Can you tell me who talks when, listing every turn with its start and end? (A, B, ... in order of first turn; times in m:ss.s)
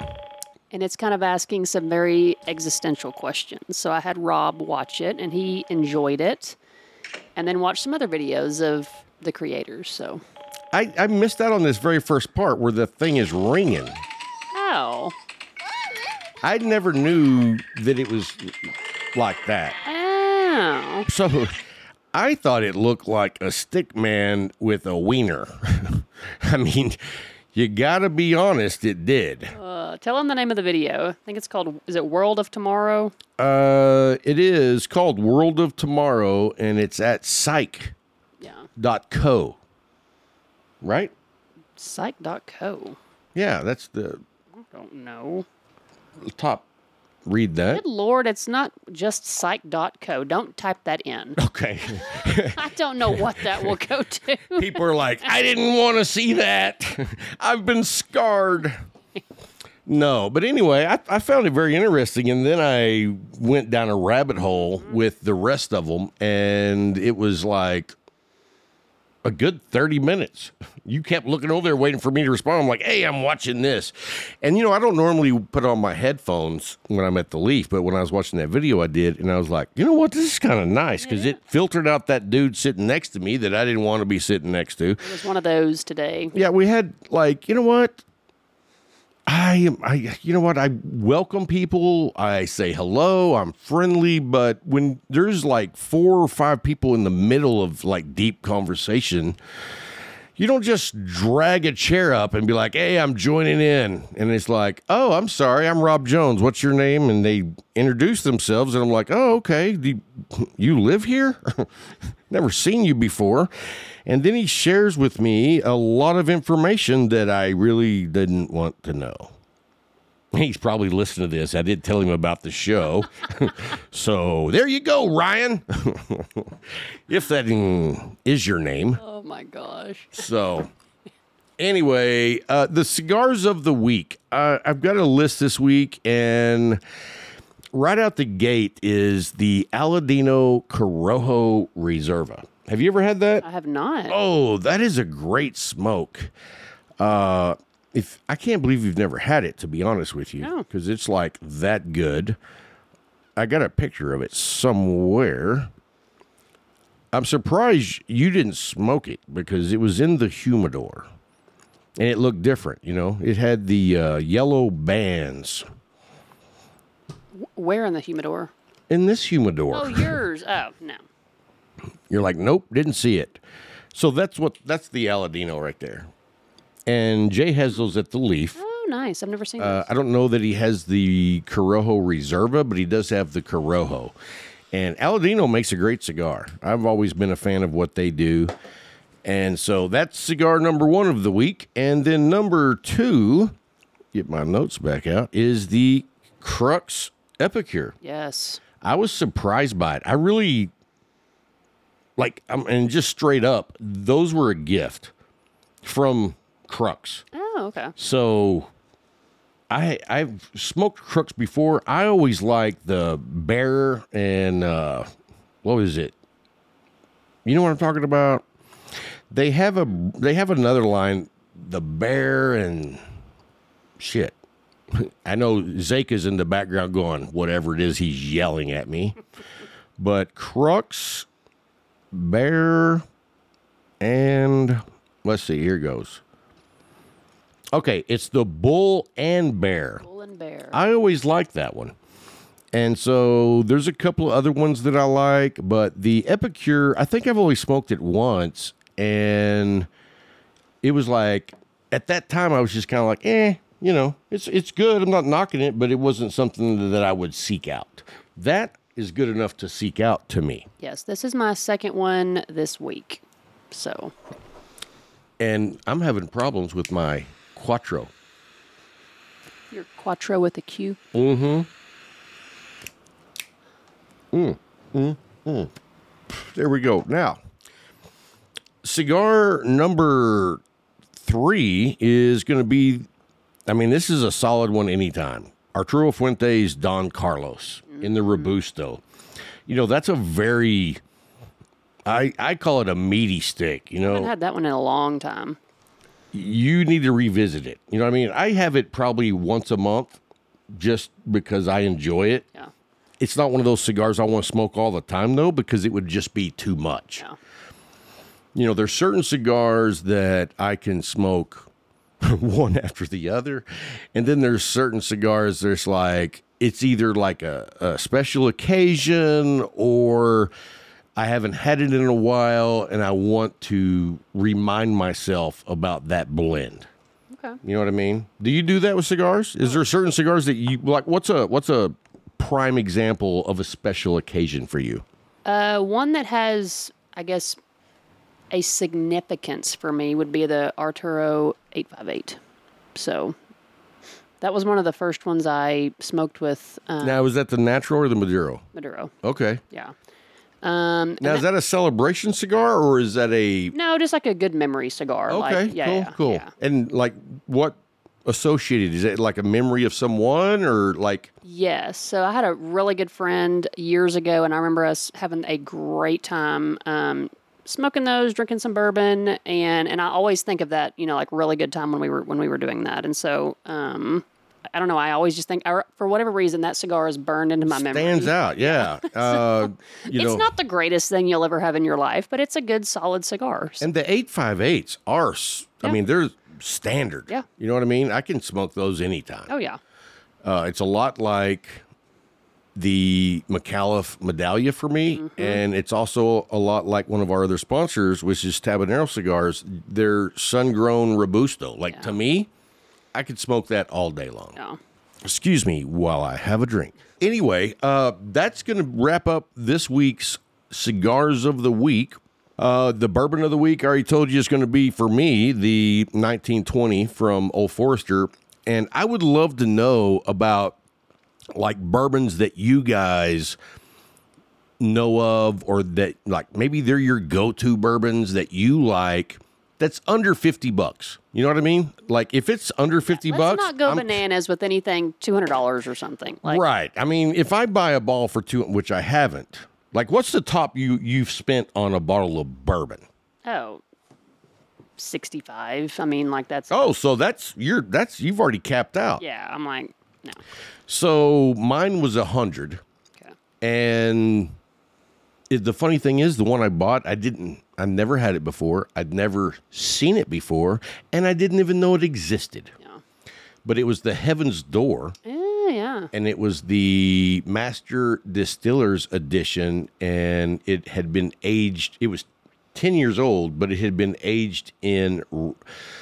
0:00.7-0:06.6 A
0:07.4-0:10.2 A
0:10.7-0:14.0 B
0:14.5-0:15.1 A
0:16.4-0:19.8 B
0:19.8-0:21.1 A
0:21.1-0:21.6 B
0:22.1-0:27.0 B
0:27.5-0:29.5 B
0:29.5-0:33.1 A
0:33.4-0:37.9 B
0:38.4-0:38.7 A
0:38.8-0:39.6 B
0:40.8-0:41.1 B
0:41.8-0:43.0 A
0:43.3-0:44.2 B
0:44.7-0:45.4 A
0:46.2-0:46.6 B
0:47.2-0:47.8 B
0:47.7-0:51.4 A
0:51.4-0:53.5 B
0:52.0-0:54.8 A
0:54.5-0:58.8 B
0:59.8-1:07.9 B
1:09.2-1:25.0 B
1:21.0-1:21.4 A
1:25.0-1:26.3 A
1:26.3-1:28.0 B
1:29.3-1:39.4 B
1:40.4-1:51.7 B
1:52.3-1:53.5 B
1:54.0-1:59.3 B
2:00.3-2:06.6 B
2:07.1-2:09.0 B
2:09.0-2:10.2 A
2:10.1-2:10.7 B
2:11.6-2:16.8 B
2:17.7-2:23.4 B
2:23.4-2:24.2 A
2:24.1-2:26.3 B
2:27.0-2:32.4 B
2:30.4-2:30.6 A
2:33.4-2:35.7 B
2:37.1-2:41.1 B
2:42.0-2:45.6 B
2:47.3-2:48.5 A
2:48.9-2:50.2 B
2:49.7-2:51.0 A
2:52.1-2:53.4 B
2:53.9-2:56.1 B
2:56.9-2:58.6 B
2:58.6-2:59.8 A
2:59.6-3:04.1 B
3:04.7-3:08.5 B
3:09.2-3:13.5 B
3:14.1-3:17.9 B
3:18.0-3:18.6 A
3:18.8-3:20.7 B
3:22.2-3:25.1 B
3:25.8-3:27.2 B
3:27.3-3:27.9 A
3:28.0-3:28.7 B
3:29.7-3:35.1 B
3:35.6-3:36.1 B
3:37.4-3:38.4 B
3:39.3-3:43.0 B
3:44.0-3:44.3 B
3:44.9-3:49.2 B
3:50.0-3:51.3 B
3:52.1-3:53.0 B
3:54.0-3:56.2 B
3:57.7-4:00.0 B
4:00.0-4:00.8 A
4:00.7-4:01.9 B
4:02.7-4:09.9 B
4:10.8-4:20.7 B
4:20.8-4:24.1 A
4:25.4-4:28.1 B
4:29.7-4:31.0 A
4:31.1-4:31.7 B
4:34.3-4:35.7 B
4:36.3-4:37.4 B
4:38.8-4:40.6 B
4:41.2-4:43.1 B
4:43.7-4:49.0 B
4:47.9-4:48.5 A
4:49.7-4:51.0 B
4:52.0-4:54.3 B
4:54.0-4:55.6 A
4:56.3-5:00.2 B
5:00.7-5:02.4 B
5:03.2-5:07.2 B
5:08.5-5:11.7 B
5:12.2-5:20.5 B
5:21.2-5:26.9 B
5:27.3-5:27.6 A
5:27.6-5:35.0 B
5:35.4-5:37.6 A
5:38.5-5:42.4 A
5:42.9-5:43.4 A
5:44.4-5:47.2 A
5:47.0-5:48.6 B
5:48.7-5:49.1 A
5:49.2-5:49.6 B
5:50.6-5:51.4 A
5:51.2-5:53.7 B
5:53.7-5:56.5 A
5:55.3-6:01.3 B
6:01.4-6:23.9 A
6:17.7-6:20.5 B
6:23.8-6:29.5 B
6:29.5-6:29.8 A
6:30.4-6:31.8 B
6:32.7-6:42.5 B
6:35.1-6:35.6 A
6:43.1-6:44.6 B
6:45.2-7:00.8 B
7:01.5-7:03.6 B
7:04.8-7:14.2 B
7:13.1-7:16.6 A
7:16.4-7:23.0 B
7:23.4-7:23.8 A
7:25.0-7:26.9 A
7:26.7-7:29.2 B
7:29.2-7:30.4 A
7:30.9-7:32.8 B
7:33.6-7:34.5 B
7:35.5-7:42.7 B
7:43.6-7:45.2 B
7:45.2-7:46.1 A
7:46.1-7:55.6 B